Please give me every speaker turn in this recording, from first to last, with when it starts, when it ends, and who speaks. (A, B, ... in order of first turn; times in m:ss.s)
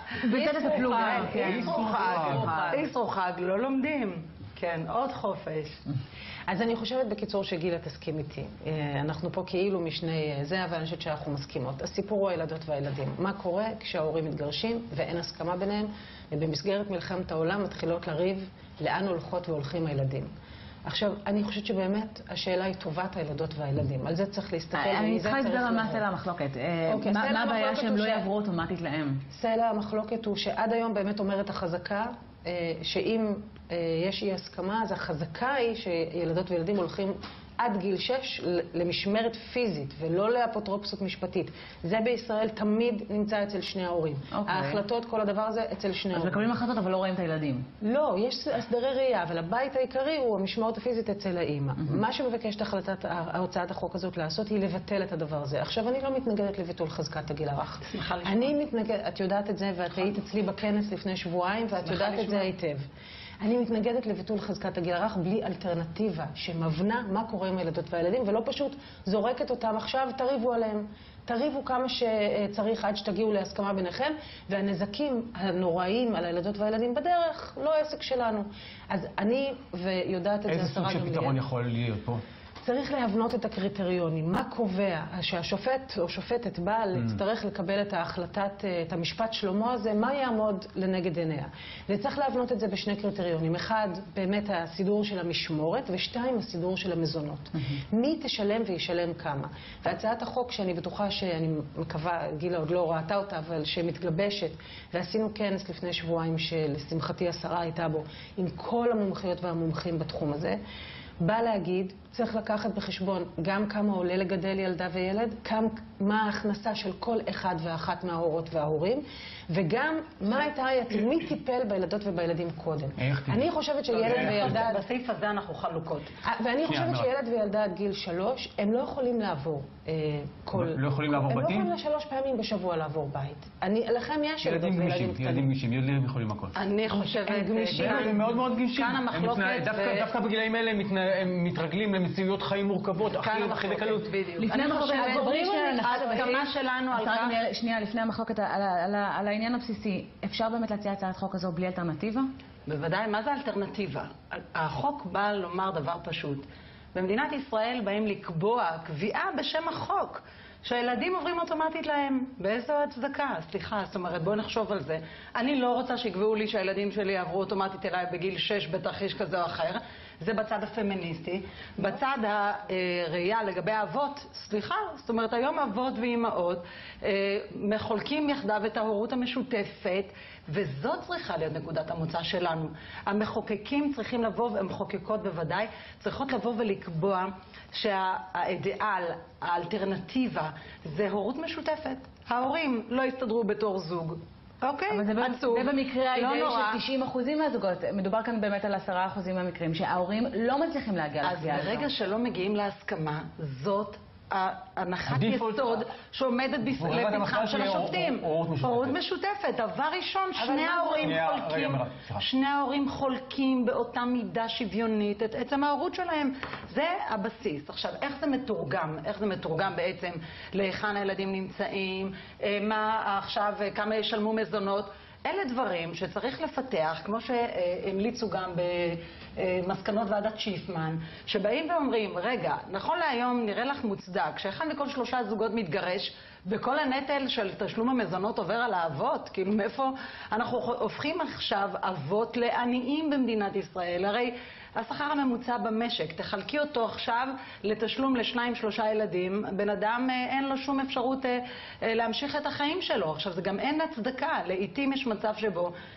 0:00.2-0:02.8 A
0:00.2-0:05.8 B
0:01.4-0:02.6 C
0:06.5-0:20.3 D
0:20.8-0:26.1 D
0:24.7-0:29.2 A
0:26.9-0:28.3 D
0:29.3-0:46.5 D
0:44.3-0:44.8 A
0:46.1-0:47.7 A
0:47.8-1:02.9 D
0:57.8-0:58.6 B
1:01.8-1:02.5 B
1:03.4-1:21.4 D
1:20.5-1:22.2 C
1:22.6-1:50.6 D
1:51.2-2:04.8 D
2:03.0-2:03.5 C
2:03.9-2:06.1 B
2:04.0-2:04.6 C
2:06.2-2:15.5 D
2:06.6-2:07.1 C
2:10.5-2:11.7 C
2:14.4-2:16.6 C
2:16.6-2:20.1 B
2:16.9-2:18.2 D
2:17.7-2:24.1 C
2:23.1-2:27.4 B
2:24.4-2:32.3 A
2:32.7-3:16.8 B
3:14.9-3:21.9 A
3:21.2-4:15.7 B
3:25.1-3:25.8 C
3:26.7-3:29.0 C
3:30.4-3:31.2 D
3:31.0-3:32.2 C